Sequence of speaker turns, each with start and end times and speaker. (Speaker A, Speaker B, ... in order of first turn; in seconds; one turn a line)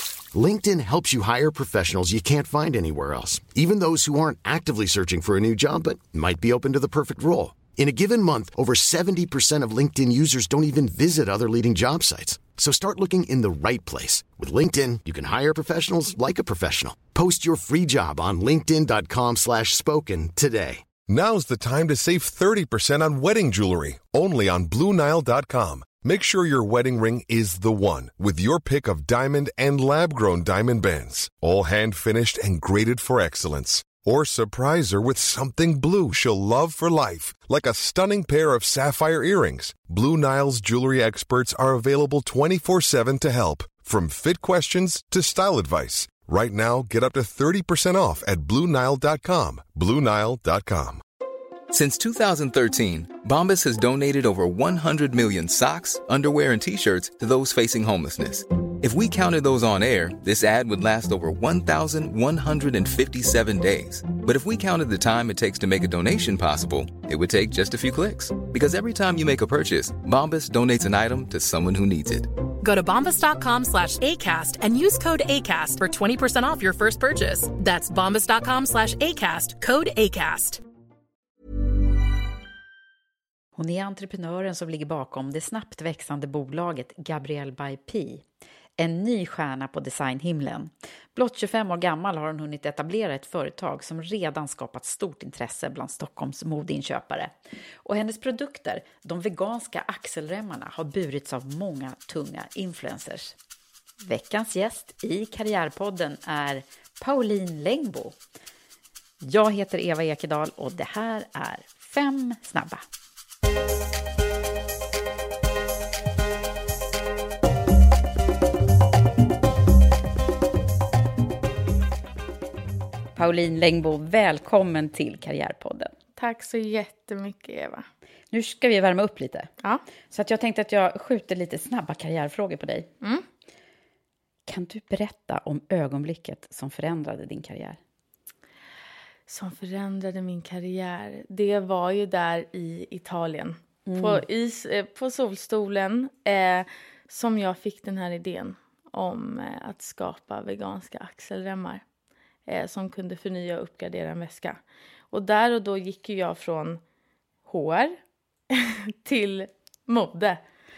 Speaker A: 0.3-20.8
Speaker B: 21.1-51.0
Speaker C: 51.7-72.3
Speaker D: 72.6-80.6
Speaker E: 83.6-88.2
Speaker E: 88.8-90.7
Speaker E: 91.3-97.3
Speaker E: 97.8-103.3
Speaker E: 104.0-108.2
Speaker E: 109.2-112.8
Speaker E: 123.2-125.9
Speaker F: 126.2-127.8
Speaker E: 128.3-129.5
Speaker E: 130.1-132.9
Speaker E: 134.5-137.8
Speaker F: 139.3-151.8
Speaker E: 143.8-144.2
Speaker F: 152.5-154.6
Speaker F: 155.1-156.8
Speaker F: 157.4-157.9
Speaker F: 158.5-160.4